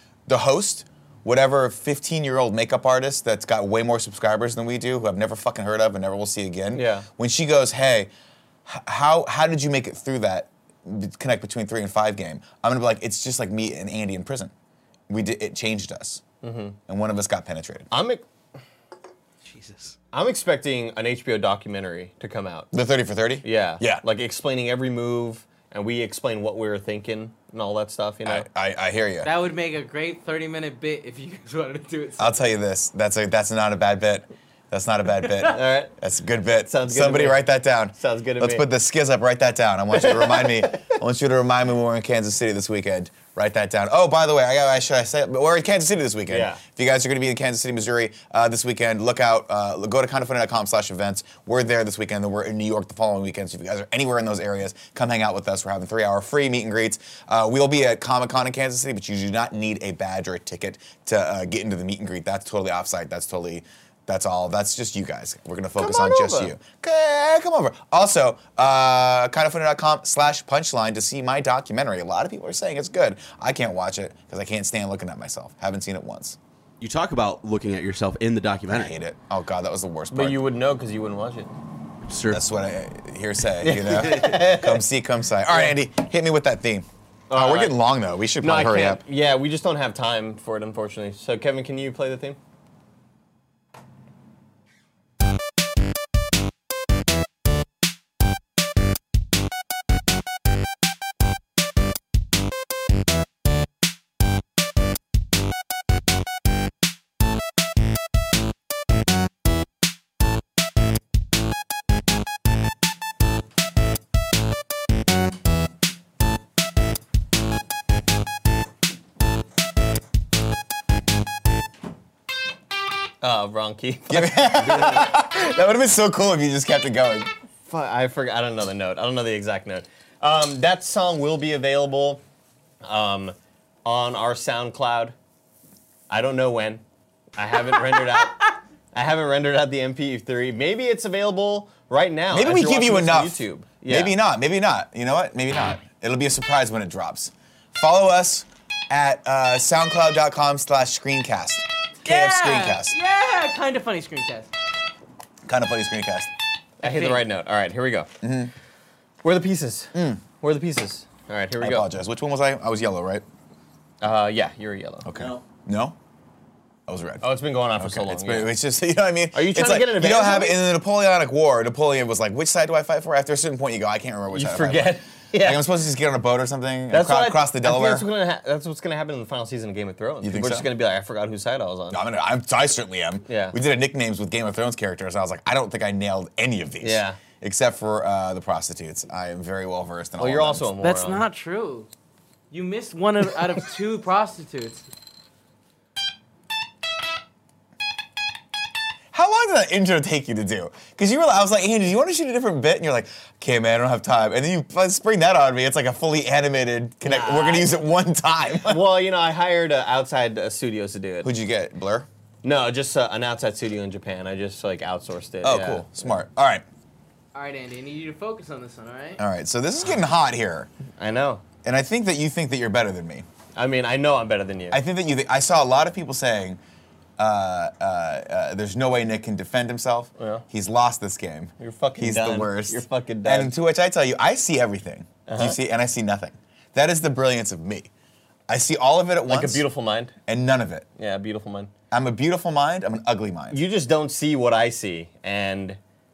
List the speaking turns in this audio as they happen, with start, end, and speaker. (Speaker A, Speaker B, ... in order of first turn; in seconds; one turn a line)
Speaker A: 0.3-8.1
Speaker B: 6.7-7.0
Speaker A: 8.7-14.5
Speaker A: 15.1-16.2
Speaker B: 16.4-16.8
Speaker A: 16.9-17.9
Speaker B: 17.9-18.2
Speaker C: 19.4-19.9
Speaker B: 20.1-22.7
Speaker A: 22.7-24.0
Speaker B: 23.4-28.5
Speaker A: 28.2-29.3
Speaker D: 29.2-32.4
Speaker A: 32.2-76.4
Speaker B: 35.4-35.9
Speaker B: 36.7-38.7
Speaker B: 39.9-41.0
Speaker B: 46.3-46.6
Speaker B: 65.8-66.5
Speaker C: 76.8-78.9
Speaker A: 78.7-80.4
Speaker B: 80.1-81.5
Speaker C: 82.0-82.4
Speaker A: 82.3-89.0
Speaker B: 83.6-84.8
Speaker B: 87.3-87.8
Speaker B: 88.4-92.4
Speaker B: 123.2-125.0
Speaker A: 124.1-127.3
Speaker B: 127.7-132.2
Speaker B: 132.8-135.1
Speaker B: 136.1-136.8
Speaker B: 137.3-144.2
Speaker A: 142.3-152.9
Speaker D: 152.0-154.5
Speaker A: 155.4-156.3
Speaker B: 156.8-158.1
Speaker D: 156.8-157.2
Speaker A: 158.2-158.5
Speaker B: 159.2-161.8
Speaker A: 159.9-160.2
Speaker A: 161.6-163.2
Speaker B: 164.0-165.1
Speaker A: 165.0-165.9
Speaker C: 165.2-165.4
Speaker A: 166.9-178.1
Speaker B: 167.2-168.6
Speaker B: 169.3-170.6
Speaker B: 174.3-175.7
Speaker B: 176.9-182.0
Speaker A: 180.2-180.7
Speaker A: 181.9-190.7
Speaker B: 183.3-183.6
Speaker B: 186.8-187.2
Speaker B: 190.2-191.2
Speaker D: 190.8-191.9
Speaker D: 192.5-194.8
Speaker A: 199.1-208.8
Speaker B: 207.0-207.8
Speaker B: 208.6-211.3
Speaker A: 211.2-212.1
Speaker B: 212.4-215.9
Speaker A: 215.4-216.6
Speaker D: 217.3-219.2
Speaker A: 219.2-220.7
Speaker B: 221.0-221.4
Speaker A: 221.6-223.2
Speaker B: 223.6-224.8
Speaker A: 224.7-226.6
Speaker A: 227.2-237.9
Speaker B: 230.2-230.4
Speaker B: 231.6-233.5
Speaker B: 235.3-235.6
Speaker A: 238.5-239.6
Speaker B: 239.3-240.1
Speaker A: 240.3-240.8
Speaker B: 241.0-241.7
Speaker A: 241.9-243.6
Speaker B: 243.5-245.8